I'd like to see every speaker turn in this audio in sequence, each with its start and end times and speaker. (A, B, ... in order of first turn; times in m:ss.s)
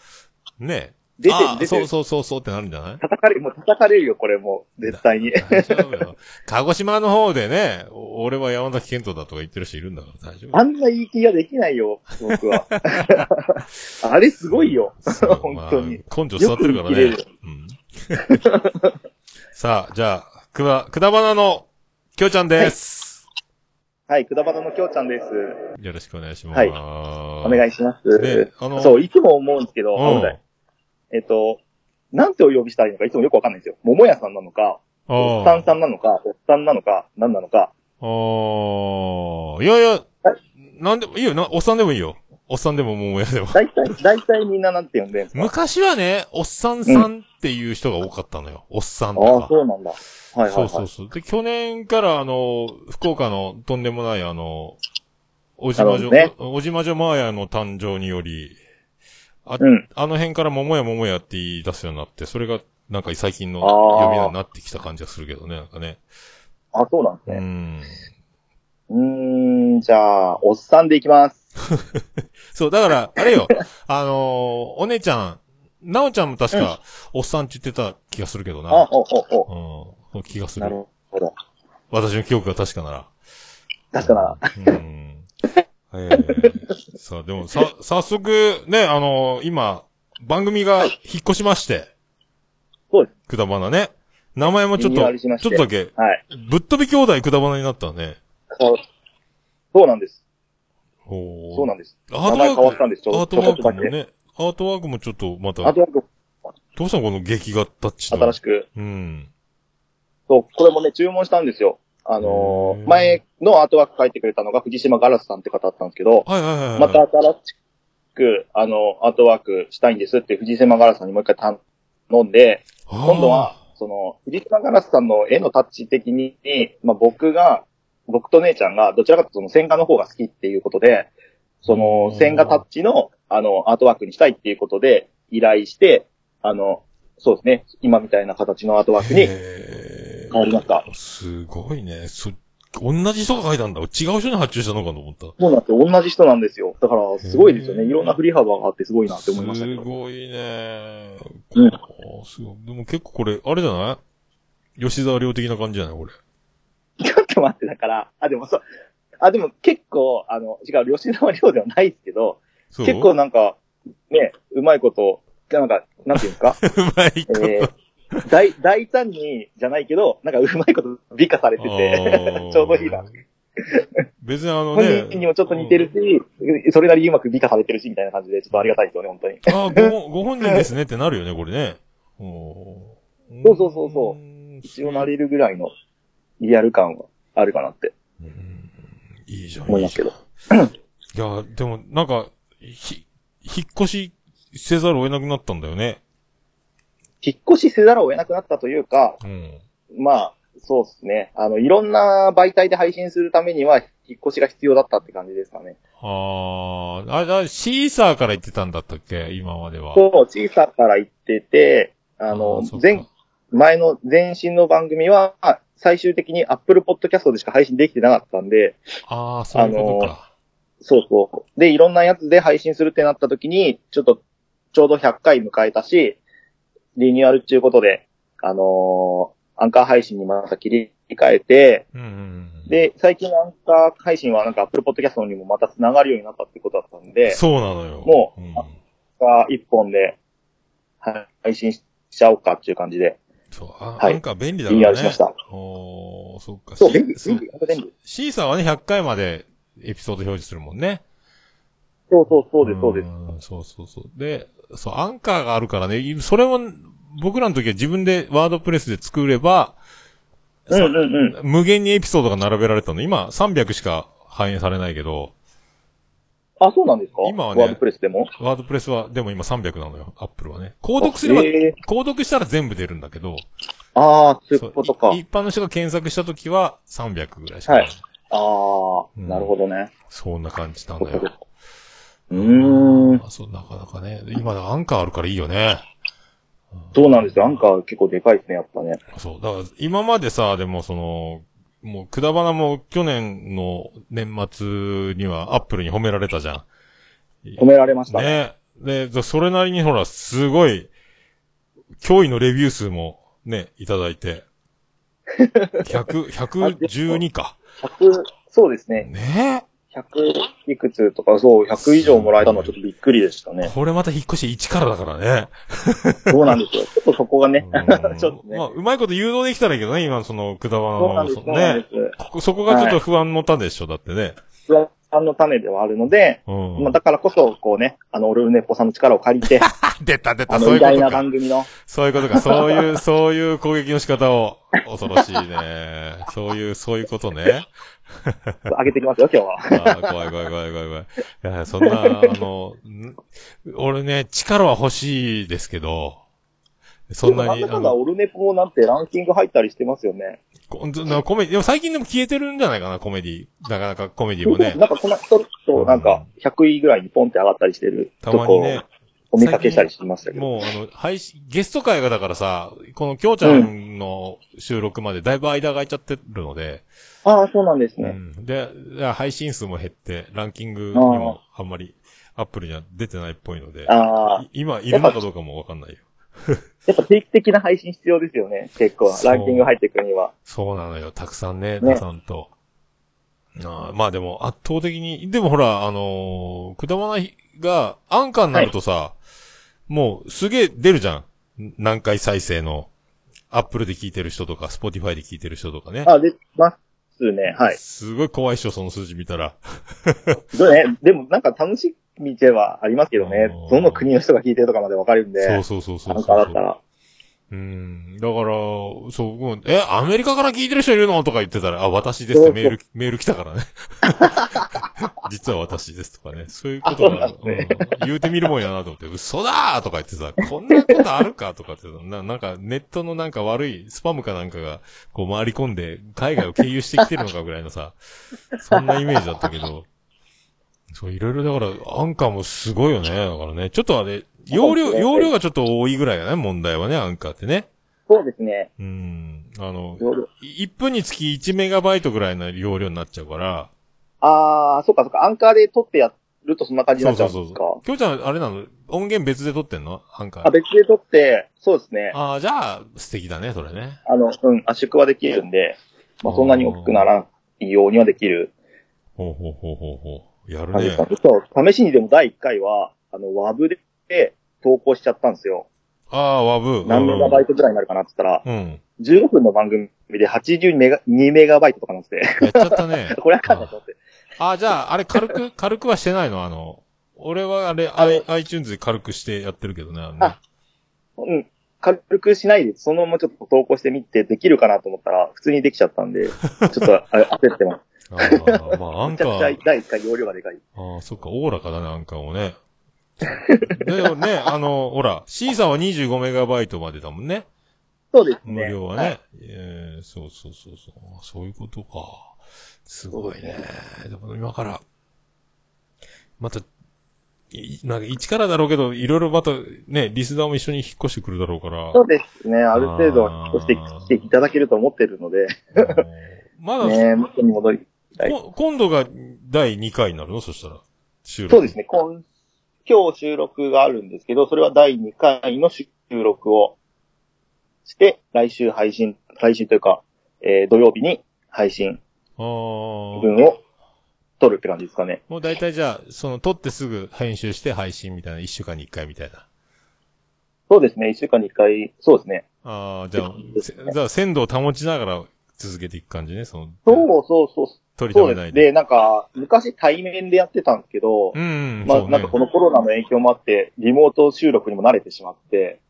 0:00.6-0:03.0 A
0:01.2-0:01.9 B
0:03.0-0:05.8 B
0:04.8-0:10.6 A
0:10.5-0:17.2 B
0:12.3-0:13.3 A
0:14.5-0:18.4 A
0:18.2-0:18.9 B
0:19.5-0:23.2 A
0:24.1-0:25.6 B
0:25.8-0:29.0 A
0:27.4-0:30.3 B
0:30.0-0:30.4 A
0:31.1-0:31.6 B
0:32.1-0:37.7 B
0:35.1-0:35.7 A
0:38.0-0:40.1 A
0:40.6-0:43.6 A
0:43.5-0:45.5 B
0:45.3-0:49.5 A
0:49.2-0:50.8 B
0:50.4-0:54.8 A
0:55.6-0:58.6 A
0:55.8-0:56.3 B
0:59.4-1:06.0 A
0:59.6-0:59.8 B
1:03.6-1:04.3 B
1:06.7-1:07.4 B
1:07.3-1:07.9 A
1:08.9-1:11.4 B
1:11.7-1:18.9 A
1:18.7-1:19.5 B
1:19.5-1:20.8 A
1:20.6-1:21.3 B
1:21.9-1:23.1 A
1:23.9-1:24.8 B
1:24.0-1:25.3 A
1:25.9-1:31.9 A
1:26.1-1:26.5 B
1:33.3-1:38.2 A
1:34.8-1:36.2 B
1:38.5-1:38.8 B
1:39.7-1:40.2 B
1:41.1-1:45.8 A
1:41.5-1:43.9 B
1:45.6-1:46.0 B
1:46.7-1:49.3 A
1:48.1-1:48.6 B
1:50.3-1:57.5 B
1:52.2-1:53.2 A
1:56.2-1:57.0 A
1:58.2-2:11.1 B
2:02.9-2:03.6 A
2:11.6-2:19.3 B
2:11.6-2:12.6 A
2:19.0-2:25.3 A
2:20.3-2:20.8 B
2:25.4-2:29.9 B
2:27.2-2:28.2 A
2:29.1-2:34.0 A
2:34.8-2:36.1 A
2:37.0-2:38.6 B
2:39.2-2:43.6 B
2:42.7-2:43.1 A
2:44.1-2:46.6 B
2:46.1-2:48.2 A
2:47.3-2:47.7 B
2:48.2-2:53.0 B
2:51.6-2:53.1 A
2:54.2-2:55.9 A
2:54.7-2:59.9 B
2:59.4-3:05.1 A
3:03.4-3:05.7 B
3:06.4-3:07.9 B
3:08.2-3:10.2 A
3:09.7-3:10.7 B
3:11.1-3:16.0 A
3:17.2-3:19.2 B
3:19.2-3:19.6 A
3:19.9-3:25.8 B
3:26.0-3:30.0 A
3:30.0-3:38.8 B
3:32.3-3:33.1 A
3:39.1-3:40.3 A
3:39.5-3:40.1 B
3:40.8-3:44.2 B
3:44.7-3:46.2 B
3:47.0-3:51.8 B
3:51.9-3:52.7 A
3:52.7-3:57.4 B
3:57.3-3:58.8 A
3:58.0-3:58.4 B
3:59.2-4:00.2 B
4:01.0-4:03.2 B
4:03.5-4:11.0 A
4:04.0-4:05.3 B
4:06.8-4:07.9 B
4:12.1-4:13.1 B
4:12.3-4:19.8 A
4:20.7-4:25.3 A
4:20.7-4:21.4 B
4:26.6-4:28.3 B
4:27.2-4:27.8 A
4:28.4-4:33.4 A
4:31.0-4:31.7 B
4:33.9-4:35.2 B
4:34.6-4:38.0 A
4:37.7-4:39.9 B
4:39.2-4:39.5 A
4:40.1-4:41.3 A
4:41.0-4:41.3 B
4:42.3-4:43.2 B
4:42.3-4:45.8 A
4:46.7-4:47.6 A
4:46.9-4:49.0 B
4:49.1-4:56.7 A
4:57.4-5:00.9 A
4:57.6-4:58.4 B
5:02.0-5:04.4 A
5:05.4-5:05.9 B
5:05.8-5:07.6 A
5:06.6-5:07.2 B
5:07.8-5:09.1 B
5:09.0-5:09.6 A
5:09.9-5:13.7 B
5:11.8-5:12.7 A
5:13.6-5:16.6 A
5:16.3-5:18.6 B
5:17.6-5:24.4 A
5:21.0-5:22.1 B
5:22.7-5:23.0 B
5:24.7-5:29.7 B
5:26.4-5:27.0 A
5:29.4-5:31.3 A
5:30.5-5:31.7 B
5:31.8-5:37.7 A
5:32.3-5:32.8 B
5:38.2-5:38.7 A
5:38.7-5:40.0 B
5:39.7-5:46.2 A
5:41.8-5:42.3 B
5:47.1-5:48.0 A
5:47.2-5:50.4 B
5:50.7-5:54.8 A
5:54.5-6:00.5 B
5:55.7-5:56.3 A
5:58.2-5:58.8 A
5:59.4-6:06.8 A
6:03.4-6:03.7 B
6:07.2-6:08.2 B
6:08.0-6:16.6 A
6:10.9-6:11.4 B
6:13.9-6:15.2 B
6:16.9-6:20.3 B
6:19.0-6:19.7 A
6:20.4-6:22.5 A
6:23.6-6:29.2 A
6:29.9-6:32.9 A
6:33.5-6:36.1 A
6:36.0-6:37.8 B
6:37.5-6:40.4 A
6:40.5-6:46.8 B
6:43.2-6:44.1 A
6:45.4-6:46.6 A
6:47.5-7:08.0 A
6:52.3-6:52.7 B
6:54.2-6:54.6 B
6:56.8-6:57.9 B
7:08.6-7:09.9 A
7:08.7-7:09.2 B
7:10.9-7:17.7 A
7:14.5-7:15.3 B
7:18.1-7:18.7 B
7:18.8-7:23.7 A
7:20.0-7:20.2 B
7:24.2-7:27.8 B
7:27.0-7:30.5 A
7:30.4-7:32.1 B
7:32.1-7:34.0 A
7:34.0-7:38.5 B
7:36.2-7:37.1 A
7:39.2-7:41.1 A
7:40.7-7:45.7 B
7:46.1-7:47.4 A
7:46.8-7:48.4 B
7:48.4-7:48.8 A
7:49.0-7:54.0 B
7:52.4-7:53.7 A
7:54.4-8:00.4 A
7:58.0-7:58.2 B
8:01.2-8:10.6 B
8:06.4-8:06.9 A
8:08.1-8:09.6 A
8:10.8-8:12.6 A
8:13.2-8:17.5 A
8:13.4-8:14.1 B
8:18.1-8:19.1 B
8:18.4-8:24.8 A
8:23.1-8:23.6 B
8:26.4-8:26.6 A
8:27.5-8:32.0 A
8:31.9-8:36.0 B
8:32.7-8:34.2 A
8:35.7-8:37.1 A
8:36.8-8:38.3 B
8:38.2-8:41.8 A
8:41.5-8:42.2 B
8:42.8-8:46.7 B
8:47.8-8:52.0 B
8:52.4-8:53.3 A
8:53.2-8:53.6 B
8:54.4-8:55.2 B
8:55.3-8:59.4 A
9:00.7-9:02.4 B
9:02.6-9:07.1 A
9:03.2-9:03.9 B
9:06.8-9:15.8 B
9:08.0-9:08.7 A
9:11.3-9:12.3 A